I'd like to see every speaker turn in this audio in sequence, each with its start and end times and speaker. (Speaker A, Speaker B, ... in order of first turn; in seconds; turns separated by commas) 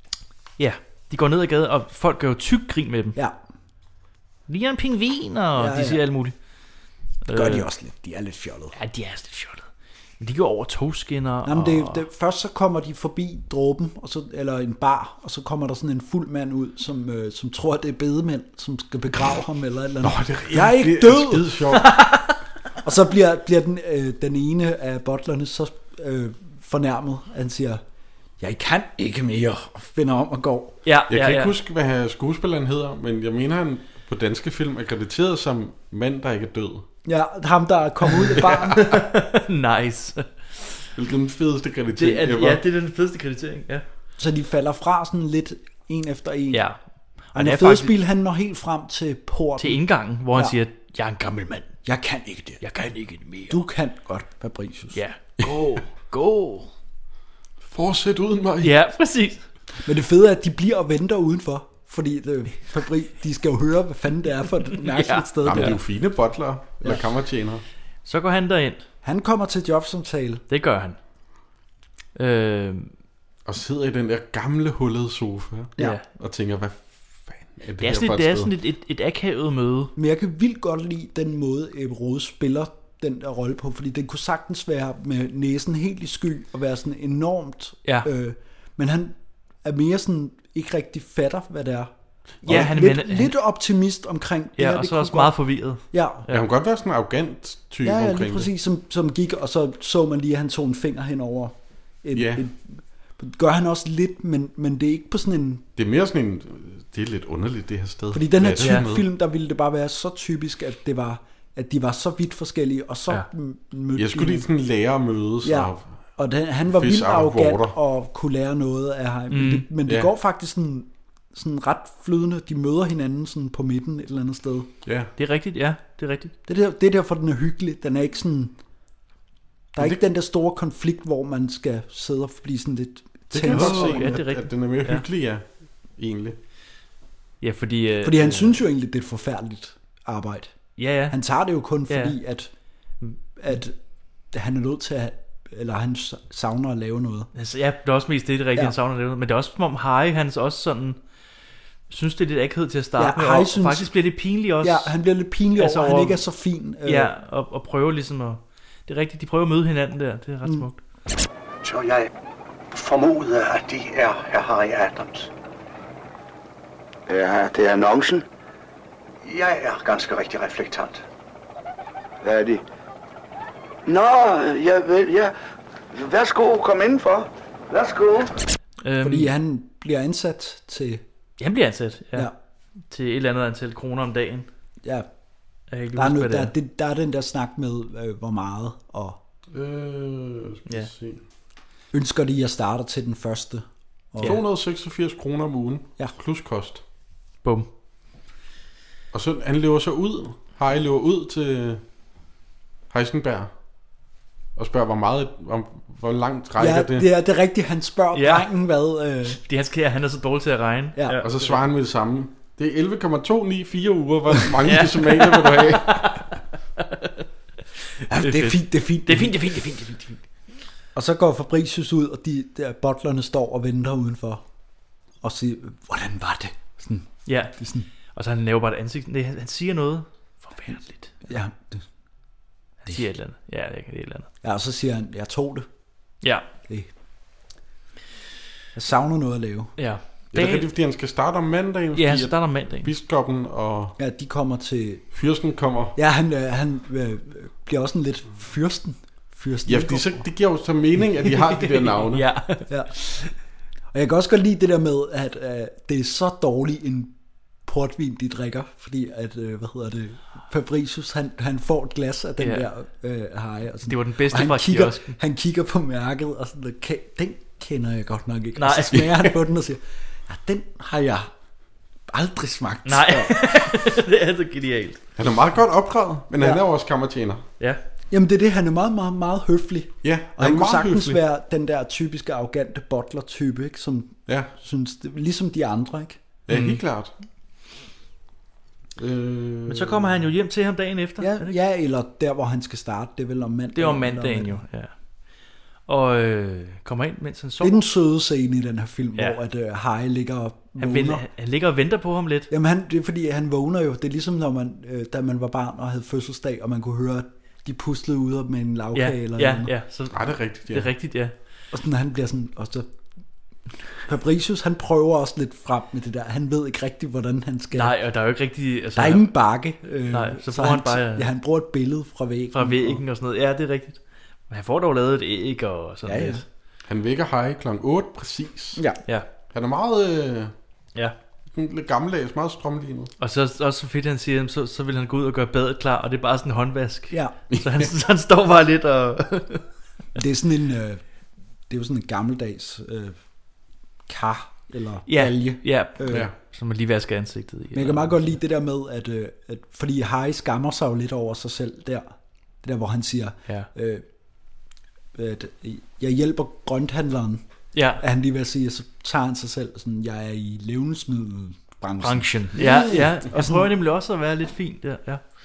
Speaker A: 0.6-3.2, Speaker A: 4.5-6.3, Speaker B: 5.6-6.0, Speaker A: 7.2-7.7, Speaker B: 7.3-8.8, Speaker A: 8.7-9.7, Speaker A: 10.2-12.1, Speaker B: 11.4-21.5, Speaker C: 20.0-21.9, Speaker A: 21.8-22.4, Speaker B: 22.8-27.8, Speaker B: 28.4-30.8, Speaker A: 30.9-31.5, Speaker C: 31.1-36.9, Speaker B: 37.0-38.8, Speaker C: 38.4-39.0, Speaker A: 38.7-40.8, Speaker C: 41.0-42.6, Speaker A: 42.0-43.9, Speaker B: 44.2-46.6, Speaker A: 46.5-46.8, Speaker A: 47.3-47.9, Speaker B: 47.3-50.6, Speaker A: 49.6-51.7, Speaker B: 51.9-52.6, Speaker A: 52.6-53.6, Speaker B: 53.5-55.0, Speaker A: 54.9-56.7, Speaker C: 57.7-58.8, Speaker A: 58.6-59.4, Speaker B: 59.8-65.8, Speaker A: 64.8-65.8, Speaker C: 65.5-67.6, Speaker A: 68.1-68.8, Speaker B: 69.0-70.4, Speaker A: 70.5-71.0, Speaker A: 72.2-72.9, Speaker C: 73.5-78.5, Speaker A: 77.8-79.9, Speaker B: 80.0-91.9, Speaker B: 92.4-95.3, Speaker A: 92.4-93.3, Speaker A: 94.6-96.4, Speaker B: 95.9-96.3, Speaker C: 96.3-98.5, Speaker B: 97.8-105.7, Speaker C: 102.1-102.4, Speaker C: 105.8-109.1, Speaker B: 108.1-114.5, Speaker C: 114.0-115.8, Speaker B: 115.4-124.7, Speaker C: 116.7-117.8, Speaker A: 119.3-119.7, Speaker C: 124.8-125.1, Speaker A: 125.2-126.3, Speaker B: 126.5-128.6, Speaker B: 129.7-134.2, Speaker C: 133.3-135.5, Speaker A: 133.4-135.0, Speaker C: 136.0-136.4, Speaker A: 137.4-138.6, Speaker B: 138.0-140.6, Speaker A: 140.8-141.2, Speaker B: 141.1-142.5, Speaker A: 141.9-142.2, Speaker B: 143.4-143.8, Speaker B: 144.3-147.3, Speaker A: 147.3-151.0, Speaker A: 151.9-154.9, Speaker B: 153.0-153.9, Speaker B: 154.6-157.1, Speaker A: 155.6-156.2, Speaker A: 156.8-160.8, Speaker D: 161.6-162.1, Speaker D: 162.7-165.3, Speaker E: 167.1-168.3, Speaker D: 169.2-171.0, Speaker E: 172.2-172.6, Speaker E: 173.9-175.3, Speaker E: 175.9-178.3, Speaker A: 178.8-179.3, Speaker B: 179.0-181.0, Speaker A: 181.4-182.3, Speaker A: 182.9-184.5, Speaker B: 184.8-185.1, Speaker A: 185.7-186.5, Speaker B: 186.0-189.2, Speaker C: 189.5-191.2, Speaker B: 191.9-194.4, Speaker C: 194.2-196.8, Speaker C: 199.1-201.8, Speaker C: 202.9-203.5, Speaker C: 204.6-207.1, Speaker B: 206.6-209.4, Speaker A: 208.1-208.5, Speaker A: 209.3-211.6, Speaker B: 210.9-211.2, Speaker C: 211.2-216.3, Speaker A: 214.7-217.2, Speaker A: 218.0-220.2, Speaker B: 218.1-219.6, Speaker B: 220.9-224.4, Speaker B: 225.2-227.9, Speaker A: 227.3-227.5, Speaker A: 228.1-231.2, Speaker B: 231.3-231.8, Speaker A: 232.8-234.3, Speaker B: 234.4-235.7, Speaker B: 238.8-239.8, Speaker A: 239.8-240.7, Speaker C: 240.3-243.9, Speaker A: 242.0-242.9, Speaker B: 244.0-245.1, Speaker C: 245.1-245.9, Speaker B: 246.0-250.2, Speaker C: 249.7-252.2, Speaker A: 251.3-253.3, Speaker B: 253.9-257.1, Speaker B: 257.7-271.3, Speaker A: 262.4-262.7, Speaker A: 263.9-265.2, Speaker A: 268.6-269.3, Speaker B: 272.1-273.9, Speaker A: 272.9-275.0, Speaker C: 275.2-277.4, Speaker B: 278.1-286.2, Speaker C: 280.0-281.2, Speaker C: 286.5-287.1, Speaker A: 286.5-286.8, Speaker C: 289.0-290.2, Speaker A: 289.7-291.5, Speaker B: 291.2-294.6, Speaker A: 293.8-294.9, Speaker A: 295.9-297.8, Speaker B: 297.6-301.2, Speaker A: 300.8-302.5, Speaker B: 302.5-309.7, Speaker A: 308.9-311.3, Speaker C: 310.1-310.9, Speaker B: 311.7-312.9, Speaker B: 314.1-318.0, Speaker A: 317.7-319.3, Speaker B: 319.0-323.0, Speaker A: 320.1-321.3, Speaker A: 322.5-326.4, Speaker B: 326.1-326.4, Speaker C: 326.9-328.8, Speaker C: 329.5-330.5, Speaker C: 331.5-333.1, Speaker A: 333.2-339.6, Speaker B: 337.1-337.4, Speaker C: 337.5-337.9, Speaker B: 340.1-341.0, Speaker B: 341.7-343.2, Speaker B: 344.1-346.3, Speaker A: 345.1-348.4, Speaker B: 347.7-352.1, Speaker B: 352.6-354.1, Speaker B: 355.1-357.4, Speaker A: 357.7-358.0, Speaker B: 358.0-363.7, Speaker A: 362.0-365.2, Speaker C: 362.6-363.1